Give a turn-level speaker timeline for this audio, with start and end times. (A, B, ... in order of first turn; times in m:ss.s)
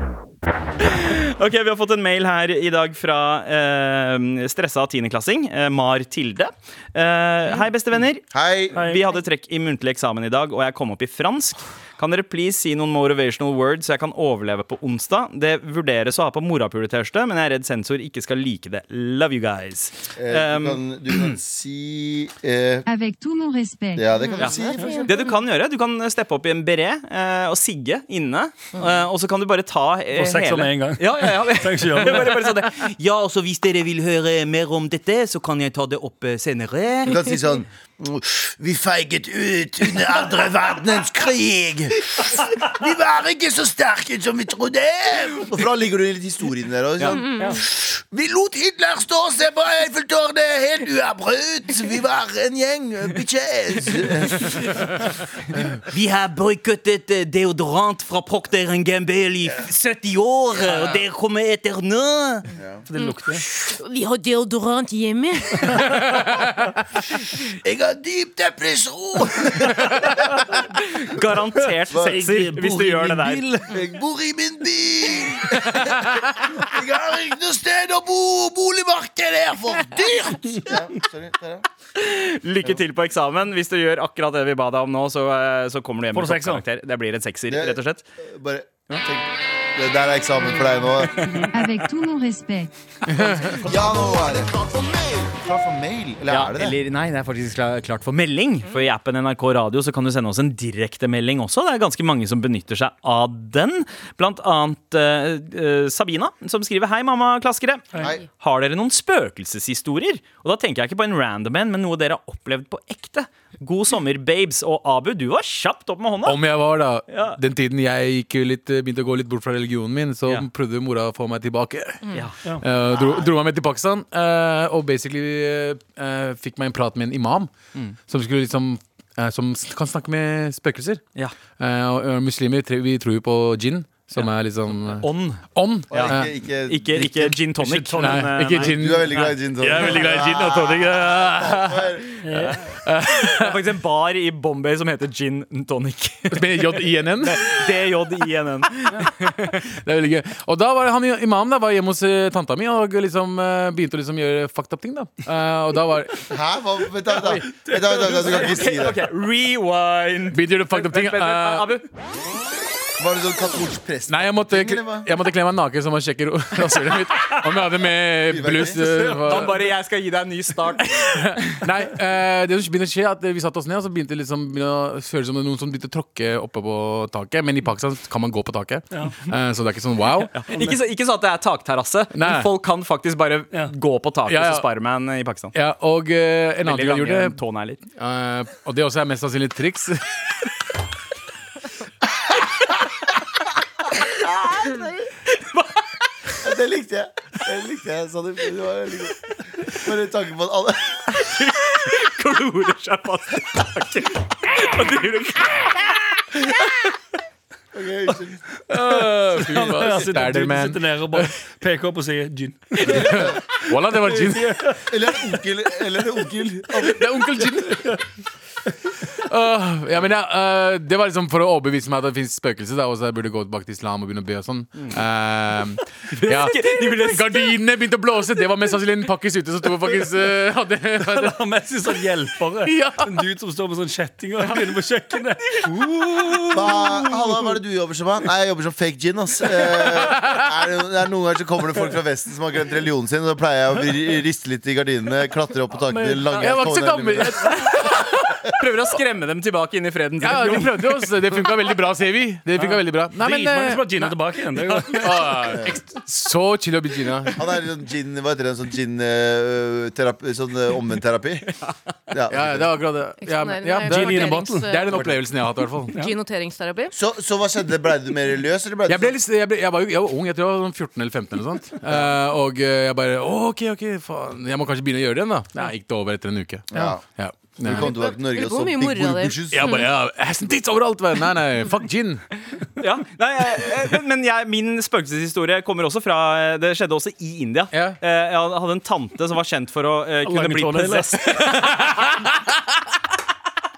0:00.8-0:21.3 A
0:08.3-0:08.8 B
0:08.7-0:09.1 C
0:20.2-0:22.9 B
0:22.9-0:24.0 D
0:23.9-0:25.2 B
0:24.1-0:25.3 E
0:24.4-0:37.2 A
0:30.1-0:32.6 C
0:37.0-0:54.7 B
0:47.1-0:47.5 E
0:55.8-1:02.5 A
1:02.5-1:02.8 B
1:02.9-1:03.4 C
1:03.0-1:05.9 E
1:07.6-1:10.5 B
1:10.8-1:13.4 A
1:11.9-1:21.6 B
1:22.0-1:28.0 A
1:26.1-1:26.6 C
1:27.5-1:31.3 B
1:31.5-1:32.7 D
1:33.1-1:33.4 F
1:33.2-1:36.8 B
1:36.3-1:56.4 A
1:56.2-2:07.5 F
1:57.1-1:57.4 A
2:08.1-2:11.0 F
2:11.6-2:16.3 F
2:15.0-2:18.7 A
2:15.9-2:17.3 B
2:17.6-2:18.5 C
2:18.0-2:21.9 F
2:18.6-2:22.1 B
2:22.2-2:22.6 C
2:22.8-2:23.6 F
2:23.3-2:29.6 A
2:26.3-2:27.5 F
2:29.7-2:36.3 F
2:36.3-2:39.0 B
2:37.2-2:41.8 A
2:40.3-2:41.7 F
2:43.0-2:45.1 B
2:44.1-2:49.7 F
2:48.3-2:48.8 B
2:49.2-2:51.5 A
2:50.8-3:00.4 F
2:58.9-2:59.2 C
3:00.3-3:05.5 A
3:02.1-3:02.5 F
3:04.3-3:04.6 F
3:05.5-3:07.4 F
3:06.6-3:07.8 A
3:08.0-3:10.0 F
3:14.0-3:14.9 B
3:15.3-3:15.7 A
3:16.4-3:21.2 B
3:21.1-3:26.9 A
3:27.7-3:28.4 B
3:28.7-3:31.3 F
3:28.8-3:34.8 C
3:32.8-3:34.8 F
3:34.9-3:37.0 B
3:36.8-3:38.0 F
3:39.2-3:51.4 F
3:46.1-3:47.5 A
3:51.0-3:56.8 C
3:52.6-3:53.1 F
3:56.5-4:07.6 B
3:59.8-4:00.4 F
4:05.8-4:08.0 F
4:07.4-4:10.9 A
4:10.2-4:14.3 F
4:12.6-4:15.5 C
4:14.7-4:15.0 A
4:14.8-4:17.4 F
4:17.4-4:21.5 B
4:22.1-4:22.8 B
4:22.3-4:25.9 F
4:23.2-4:25.0 E
4:23.8-4:24.7 C
4:25.9-4:26.9 E
4:26.9-4:29.2 B
4:28.9-4:38.0 F
4:36.7-4:37.0 B
4:37.6-4:39.8 B
4:37.8-4:39.8 E
4:39.5-4:42.2 F
4:42.8-4:51.7 A
4:47.7-4:48.0 F
4:50.2-4:51.2 C
4:51.5-4:52.0 F